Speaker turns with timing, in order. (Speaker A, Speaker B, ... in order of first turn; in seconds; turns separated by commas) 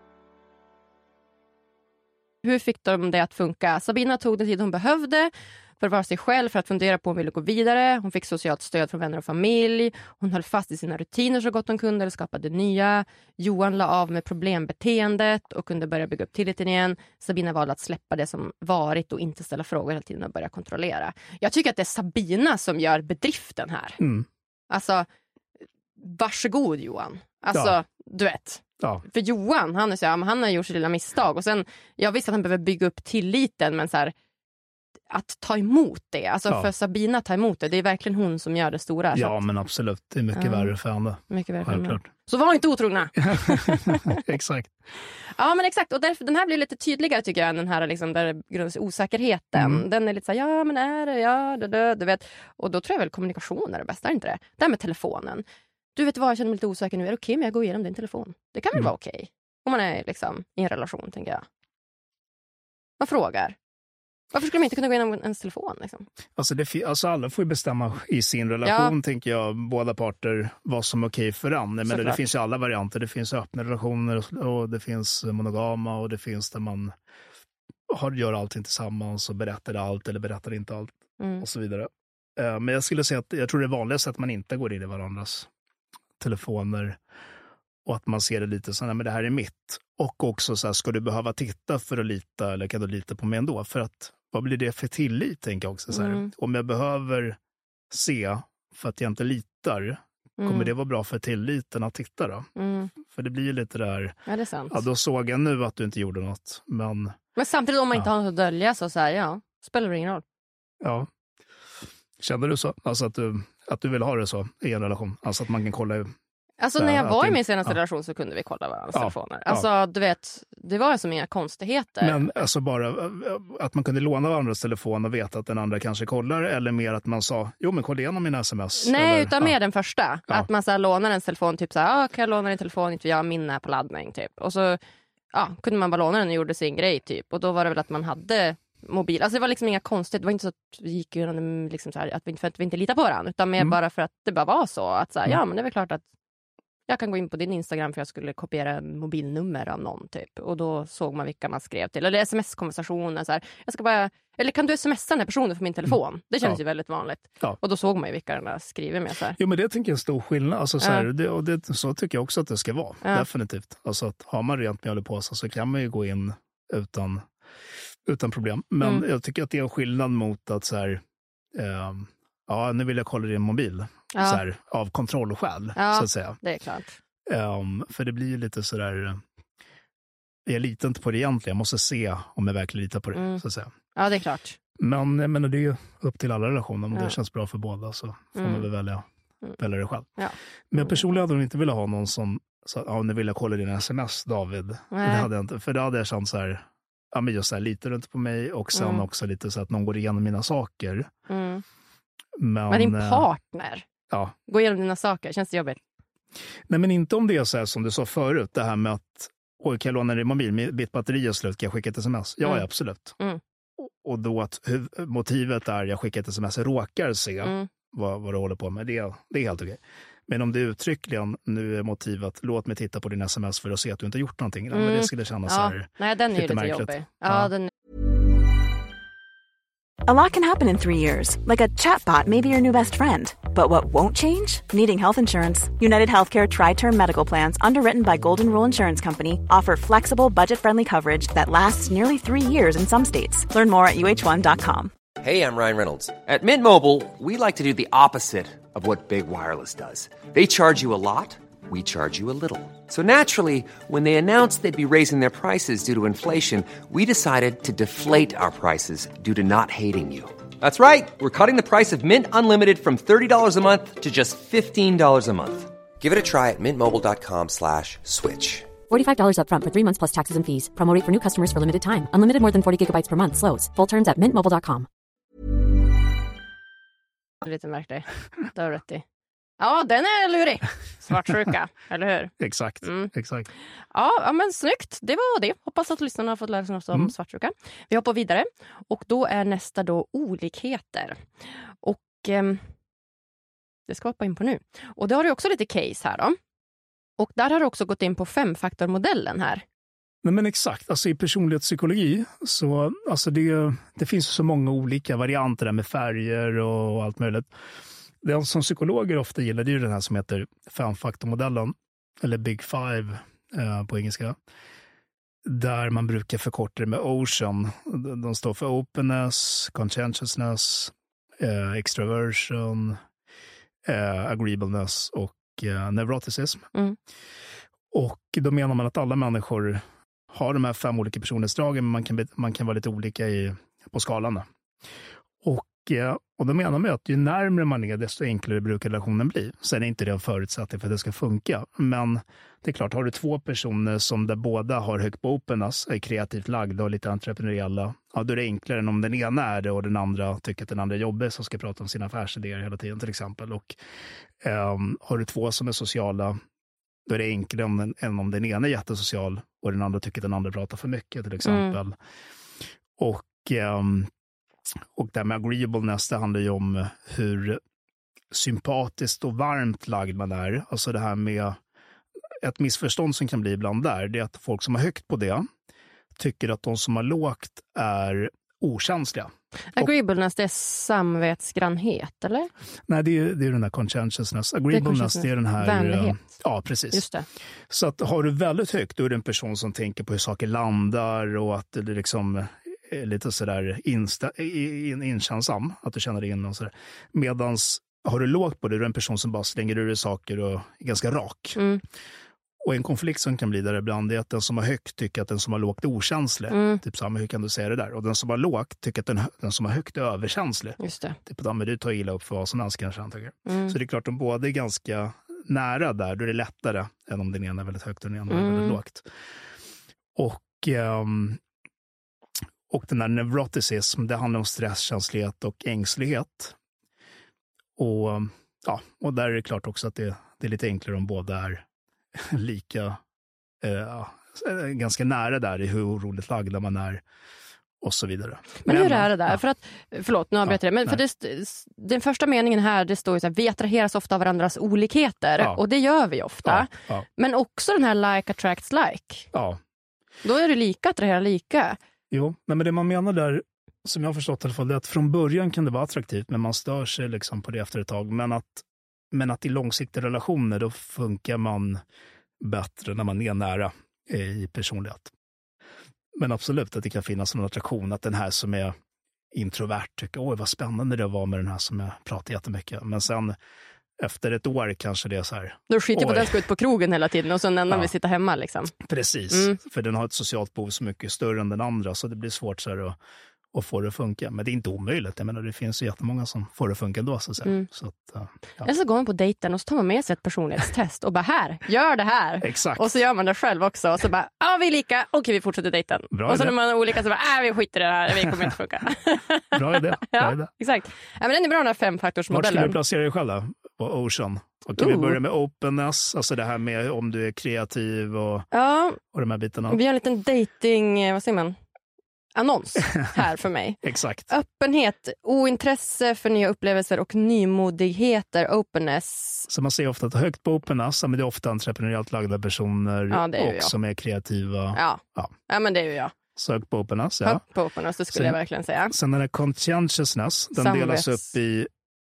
Speaker A: 2.4-24.0, Speaker B: 24.0-24.3, Speaker A: 24.7-25.1, Speaker A: 26.0-34.1, Speaker A: 35.1-39.4, Speaker B: 39.1-42.0, Speaker A: 40.4-40.7, Speaker A: 41.3-44.2, Speaker B: 43.2-44.7, Speaker A: 45.4-55.4, Speaker B: 49.5-49.9, Speaker A: 56.0-61.5, Speaker A: 63.0-63.6, Speaker A: 64.3-66.1, Speaker B: 66.4-76.9, Speaker A: 68.7-68.9, Speaker A: 71.9-72.2, Speaker B: 77.9-85.5, Speaker A: 81.2-81.5, Speaker B: 86.2-87.0, Speaker B: 87.8-97.4, Speaker A: 95.9-96.3, Speaker B: 97.9-104.2, Speaker A: 100.4-100.7, Speaker A: 102.6-102.9, Speaker A: 104.3-104.8, Speaker B: 104.7-107.2, Speaker A: 107.4-110.2, Speaker B: 110.8-111.1, Speaker B: 112.2-116.1, Speaker A: 116.6-122.3, Speaker B: 116.8-117.8, Speaker B: 118.9-119.7, Speaker B: 122.0-129.6, Speaker A: 128.8-134.8, Speaker A: 135.3-146.0, Speaker A: 146.9-159.4, Speaker B: 155.9-156.6, Speaker B: 159.4-167.3, Speaker A: 160.8-161.1, Speaker B: 168.1-171.0, Speaker B: 171.5-176.4, Speaker A: 174.1-174.4, Speaker A: 175.8-177.0, Speaker B: 177.3-179.2, Speaker B: 180.5-183.7, Speaker A: 183.1-183.4, Speaker A: 183.9-184.6, Speaker B: 184.8-189.1, Speaker A: 188.4-188.7, Speaker B: 189.6-190.1, Speaker A: 190.2-190.9, Speaker B: 190.7-201.1, Speaker A: 194.9-195.3, Speaker A: 198.7-199.1, Speaker A: 201.3-201.6, Speaker B: 202.4-203.3, Speaker A: 202.7-203.9, Speaker B: 204.1-204.4, Speaker A: 204.5-205.8, Speaker B: 206.7-213.2, Speaker B: 213.8-227.5, Speaker A: 217.4-217.7, Speaker A: 224.7-227.7, Speaker C: 230.1-244.9, Speaker D: 245.2-268.8, Speaker E: 268.9-274.9, Speaker A: 277.4-279.0, Speaker A: 279.6-283.1, Speaker B: 282.4-283.5, Speaker A: 283.9-291.3, Speaker A: 291.8-292.6, Speaker A: 293.9-296.4, Speaker A: 297.2-299.6, Speaker B: 300.2-307.5, Speaker B: 308.2-314.4, Speaker B: 315.4-323.0, Speaker B: 323.9-326.6, Speaker B: 327.9-334.5, Speaker B: 335.4-353.8, Speaker B: 354.4-356.4, Speaker B: 357.1-362.0, Speaker A: 361.4-361.8, Speaker B: 363.0-364.1, Speaker B: 364.9-367.6, Speaker B: 368.3-371.6, Speaker B: 372.4-375.5, Speaker B: 376.2-379.9, Speaker A: 379.7-382.5, Speaker B: 382.9-387.0, Speaker A: 384.7-386.4, Speaker A: 386.9-387.3, Speaker B: 387.7-401.6, Speaker A: 401.6-401.8, Speaker B: 402.6-419.1, Speaker A: 406.5-406.8, Speaker A: 410.8-411.2, Speaker A: 413.5-413.8, Speaker A: 418.3-418.8, Speaker B: 420.1-421.4, Speaker B: 422.7-426.6, Speaker B: 427.8-433.0, Speaker B: 433.6-437.0, Speaker B: 437.8-439.4, Speaker A: 438.6-449.3, Speaker B: 440.5-441.0, Speaker B: 446.4-447.1, Speaker B: 449.3-449.6, Speaker A: 450.2-451.8, Speaker B: 452.1-461.8, Speaker B: 462.4-465.1, Speaker B: 466.1-468.8, Speaker B: 469.3-473.4, Speaker B: 474.0-476.4, Speaker A: 475.7-478.8, Speaker B: 478.8-483.0, Speaker A: 479.3-479.6, Speaker B: 483.5-488.7, Speaker A: 488.6-502.8, Speaker B: 492.4-492.9, Speaker B: 496.1-496.6, Speaker B: 499.5-500.5, Speaker B: 502.3-508.5, Speaker A: 504.8-505.2, Speaker A: 508.5-509.0, Speaker B: 509.1-509.8, Speaker A: 509.7-511.6, Speaker A: 512.4-513.8, Speaker B: 513.8-514.3, Speaker A: 514.3-519.5, Speaker B: 519.5-525.3, Speaker A: 523.1-523.7, Speaker A: 524.7-526.1, Speaker B: 526.4-527.4, Speaker A: 527.2-528.9, Speaker B: 528.1-528.4, Speaker B: 528.9-531.7, Speaker A: 530.6-531.2